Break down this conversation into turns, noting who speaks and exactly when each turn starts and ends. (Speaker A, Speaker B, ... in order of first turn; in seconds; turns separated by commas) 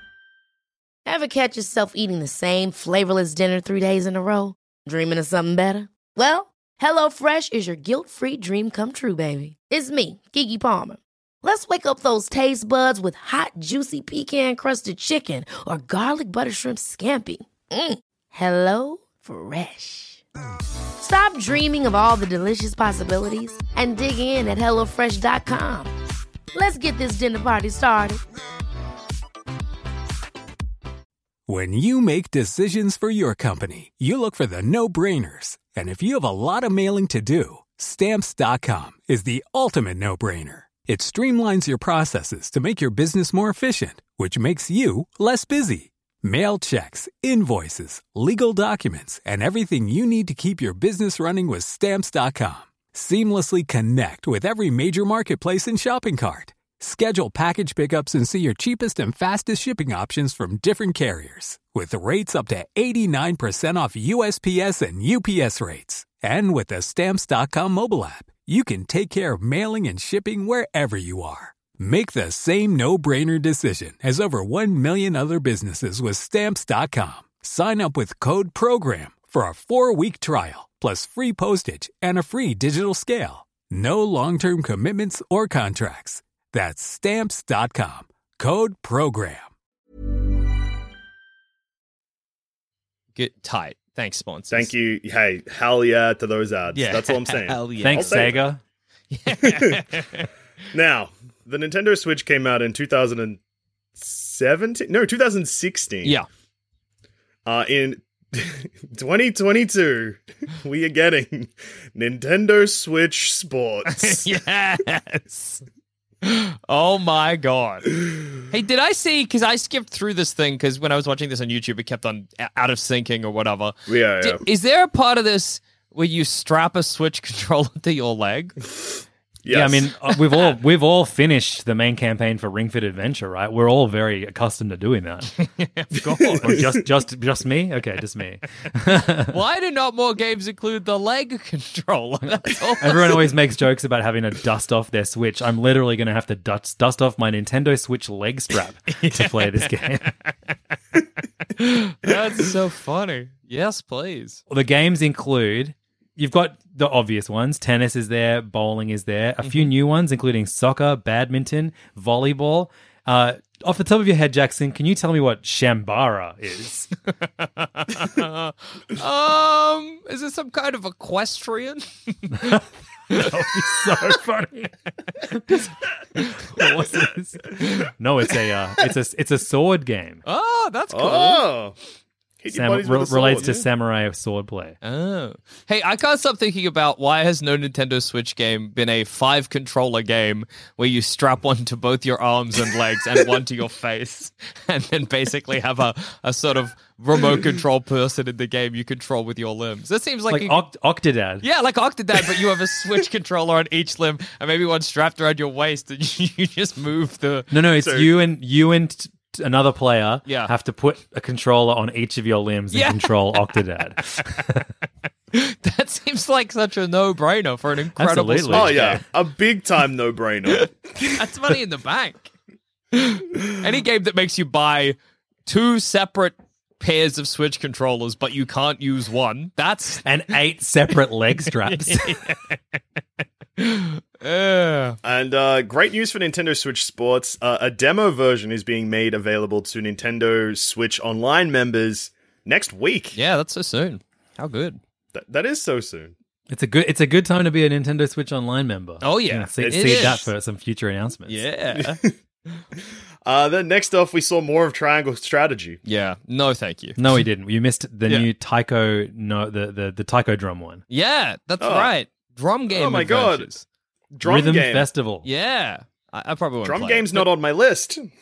Speaker A: 1.1-20.2, Speaker A: 21.0-25.9, Speaker A: 26.5-28.2, Speaker B: 31.5-89.5, Speaker C: 93.2-94.7, Speaker D: 94.5-98.5, Speaker C: 96.7-98.3, Speaker E: 97.8-98.6, Speaker C: 99.1-100.3, Speaker D: 99.3-99.8, Speaker D: 100.7-103.4, Speaker D: 104.0-106.2, Speaker D: 107.5-114.3, Speaker C: 113.9-115.6, Speaker C: 116.2-128.6, Speaker D: 123.9-124.4, Speaker D: 129.4-129.9, Speaker E: 129.5-135.3, Speaker C: 135.4-136.7, Speaker D: 136.1-136.8, Speaker E: 136.3-139.4, Speaker C: 139.2-143.2, Speaker E: 142.8-150.1, Speaker C: 148.9-150.1, Speaker C: 151.6-154.4, Speaker E: 154.5-166.9, Speaker C: 159.4-159.7, Speaker C: 167.4-172.6, Speaker E: 172.3-180.2, Speaker C: 173.1-173.4, Speaker C: 180.2-181.5, Speaker D: 180.9-181.8, Speaker D: 182.4-183.6, Speaker E: 182.5-184.8, Speaker C: 184.8-200.6, Speaker E: 200.3-201.4, Speaker C: 201.4-207.5, Speaker E: 207.5-214.7, Speaker D: 207.8-208.1, Speaker C: 210.3-210.5, Speaker C: 212.7-213.6, Speaker C: 215.3-219.0, Speaker E: 218.0-219.0, Speaker D: 218.5-221.2, Speaker C: 220.5-222.3, Speaker C: 222.9-230.1, Speaker E: 230.0-232.2, Speaker C: 231.6-232.6, Speaker C: 233.6-235.0, Speaker D: 235.0-243.2, Speaker C: 243.2-244.8, Speaker D: 245.1-246.1, Speaker E: 246.5-251.5, Speaker C: 249.0-250.2, Speaker D: 249.6-250.3, Speaker C: 251.3-252.0, Speaker D: 251.7-252.2, Speaker D: 253.2-255.8, Speaker C: 255.8-257.0, Speaker E: 257.0-260.8, Speaker C: 260.9-263.6, Speaker D: 261.6-261.9, Speaker D: 262.7-263.5, Speaker D: 264.1-264.9, Speaker E: 264.2-265.3, Speaker C: 265.2-267.3, Speaker D: 266.6-268.0